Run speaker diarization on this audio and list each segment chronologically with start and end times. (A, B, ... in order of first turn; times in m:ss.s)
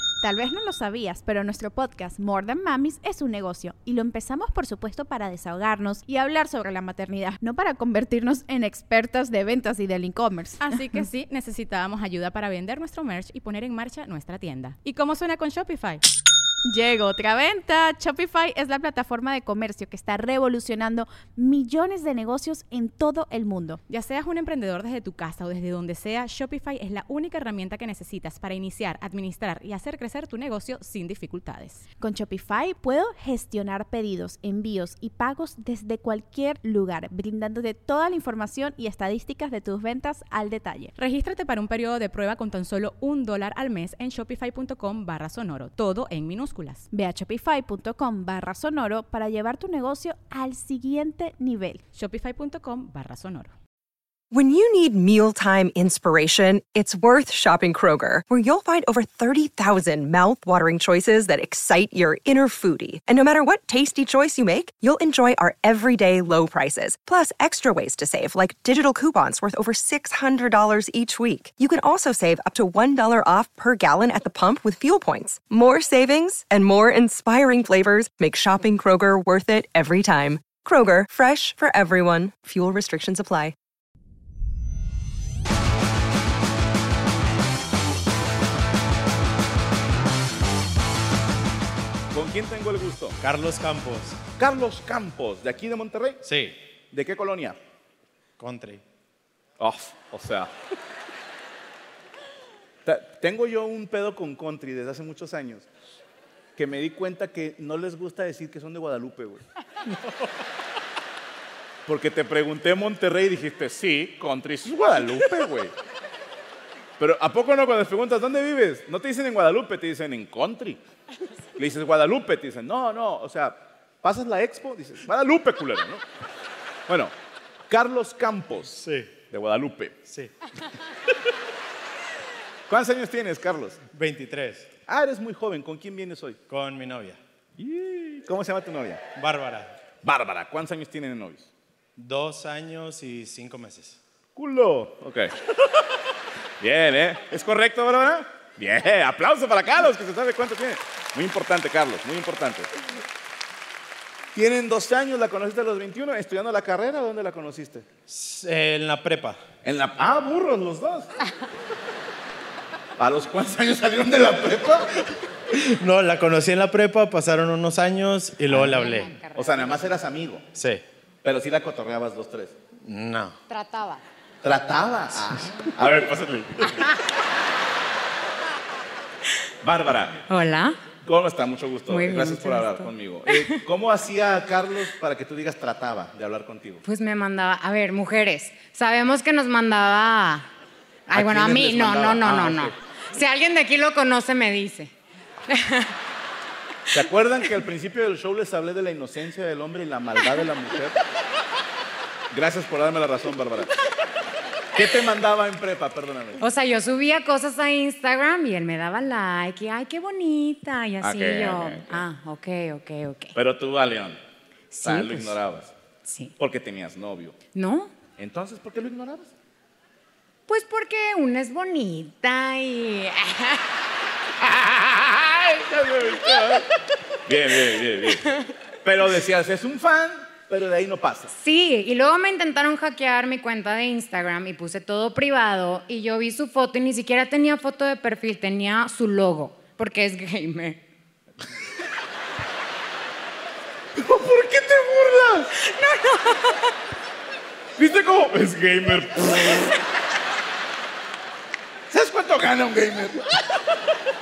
0:00.2-0:11.0 A
0:10.6-0:16.0 B
0:16.7-0:23.8 A
0:23.9-0:31.8 B
0:32.0-0:40.9 A
0:41.0-0:46.9 B
0:46.9-0:51.8 A
0:51.9-0:53.6 B
0:54.3-1:23.6 C
1:32.1-1:33.2 D
1:33.2-1:34.2 E
1:34.4-1:36.2 D
1:36.2-1:36.6 E
1:36.9-1:37.6 D
1:38.4-1:38.8 E
1:39.6-1:40.5 D
1:42.8-1:45.7 D
1:46.6-1:49.4 D
1:51.9-1:55.7 D
1:57.0-2:00.8 D
2:01.6-2:06.0 D
2:06.9-2:07.1 D
2:07.7-2:10.0 D
2:08.8-2:09.2 E
2:12.7-2:13.8 D
2:13.9-2:14.7 E
2:14.9-2:16.4 D
2:16.5-2:17.2 E
2:17.6-2:19.0 D
2:19.2-2:19.8 E
2:20.0-2:21.5 D
2:22.0-2:24.0 E
2:24.4-2:25.3 D
2:26.6-2:32.7 D
2:34.4-2:37.8 D
2:38.1-2:39.4 E
2:39.6-2:41.1 D
2:43.0-2:45.2 D
2:45.6-2:49.1 E
2:48.7-2:49.8 F
2:49.4-2:50.4 D
2:50.6-2:50.8 E
2:51.2-2:52.6 D
2:52.8-2:53.4 E
2:53.5-2:54.0 F
2:54.4-2:56.9 D
2:59.6-3:00.2 D
3:00.3-3:00.8 F
3:01.0-3:06.8 D
3:01.9-3:03.6 F
3:06.8-3:10.5 F
3:11.1-3:14.9 F
3:11.1-3:12.8 D
3:15.5-3:16.0 F
3:16.9-3:21.0 D
3:22.3-3:23.8 D
3:24.7-3:26.4 D
3:26.4-3:33.3 F
3:31.0-3:32.0 D
3:33.4-3:34.2 D
3:34.7-3:35.4 F
3:34.8-3:35.7 D
3:36.0-3:36.3 F
3:36.4-3:37.4 D
3:37.5-3:38.0 F
3:38.2-3:39.3 D
3:40.5-3:43.7 F
3:44.4-3:46.7 D
3:47.3-3:48.3 D
3:48.1-3:48.5 F
3:48.8-3:51.3 D
3:51.3-4:00.8 F
4:04.0-4:05.5 D
4:05.6-4:06.7 F
4:07.8-4:09.7 D
4:11.9-4:13.4 D